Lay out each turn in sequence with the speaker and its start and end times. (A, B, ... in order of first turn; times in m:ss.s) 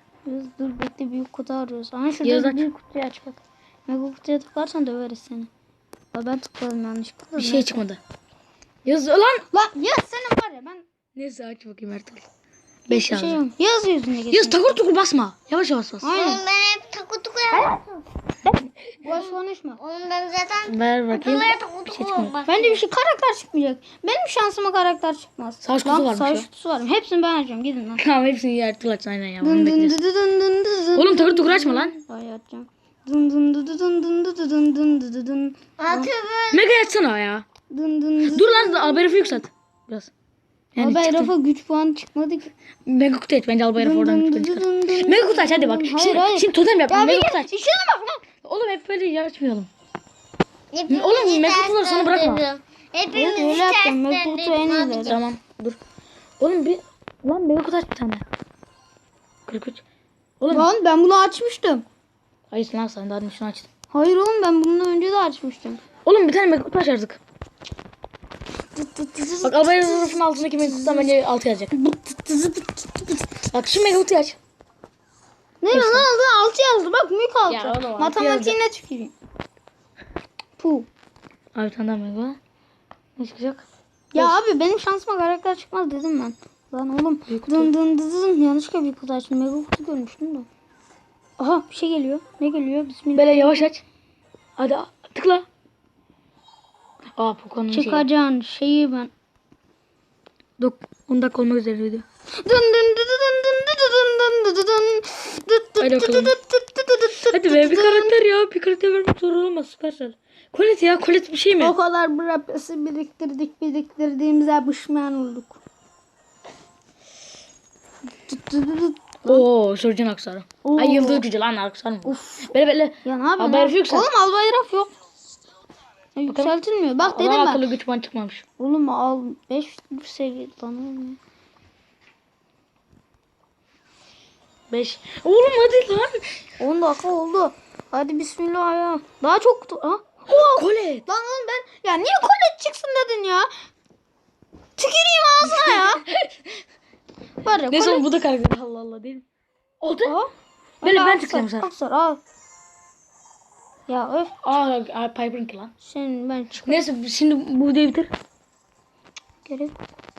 0:00.2-0:05.5 A
0:02.2-0:02.6 B
0:06.1-0:07.8 A
0:07.4-0:08.0 B
0:08.8-0:09.4 B
0:09.5-0:10.8 A
0:11.2-0:12.3 B
0:12.9-0:13.4 B
0:12.9-0:14.8 A
0:14.3-0:16.1 B
0:16.0-0:16.4 A
0:16.1-0:18.0 C
0:17.5-0:17.8 A
0:18.4-0:19.8 A
0:19.8-0:22.8 C
0:20.6-0:22.4 B
0:22.5-0:28.0 A
0:25.6-0:26.5 B
0:28.0-0:30.0 B
0:29.4-0:36.1 A
0:31.0-0:31.9 B
0:35.8-0:36.6 C
0:36.5-0:37.4 B
0:37.7-0:39.4 A
0:38.3-0:40.1 B
0:40.8-0:41.3 B
0:40.8-0:42.5 A
0:42.8-0:47.5 B
0:43.8-0:48.2 A
0:48.4-0:49.7 B
0:50.7-0:55.2 C
0:50.9-0:52.4 B
0:53.1-0:55.2 A
0:55.0-0:55.8 B
0:56.4-0:58.2 B
0:59.5-0:59.8 B
1:00.4-1:00.7 B
1:00.5-1:01.8 A
1:02.5-1:03.7 B
1:03.9-1:05.8 A
1:06.0-1:07.2 B
1:08.8-1:11.1 A
1:09.4-1:11.7 B
1:11.7-1:13.3 A
1:13.5-1:14.4 B
1:15.6-1:19.1 A
1:15.7-1:16.1 B
1:17.5-1:18.6 B
1:20.6-1:20.9 A
1:21.6-1:22.4 B
1:23.2-1:24.4 B
1:24.1-1:30.5 A
1:27.3-1:27.7 B
1:31.4-1:33.7 A
1:33.2-1:33.8 B
1:34.6-1:35.5 B
1:37.2-1:38.1 B
1:37.7-1:39.1 A
1:40.6-1:42.0 B
1:42.4-1:48.2 A
1:45.8-1:46.3 B
1:47.3-1:51.8 B
1:51.6-1:55.6 A
1:58.3-1:59.5 A
1:59.3-2:04.1 B
2:00.6-2:01.3 A
2:02.0-2:02.5 A
2:03.0-2:04.9 A
2:06.2-2:07.7 A
2:06.3-2:06.5 B
2:07.0-2:08.4 B
2:08.6-2:11.2 A
2:14.7-2:16.3 B
2:16.6-2:23.5 A
2:20.3-2:21.0 B
2:24.8-2:26.0 A
2:25.4-2:26.5 B
2:27.4-2:28.0 A
2:27.4-2:29.2 B
2:29.8-2:30.2 B
2:30.0-2:32.2 A
2:30.8-2:31.7 B
2:33.9-2:34.4 A
2:34.4-2:35.7 B
2:35.8-2:36.8 A
2:36.7-2:38.1 B
2:39.4-2:39.8 A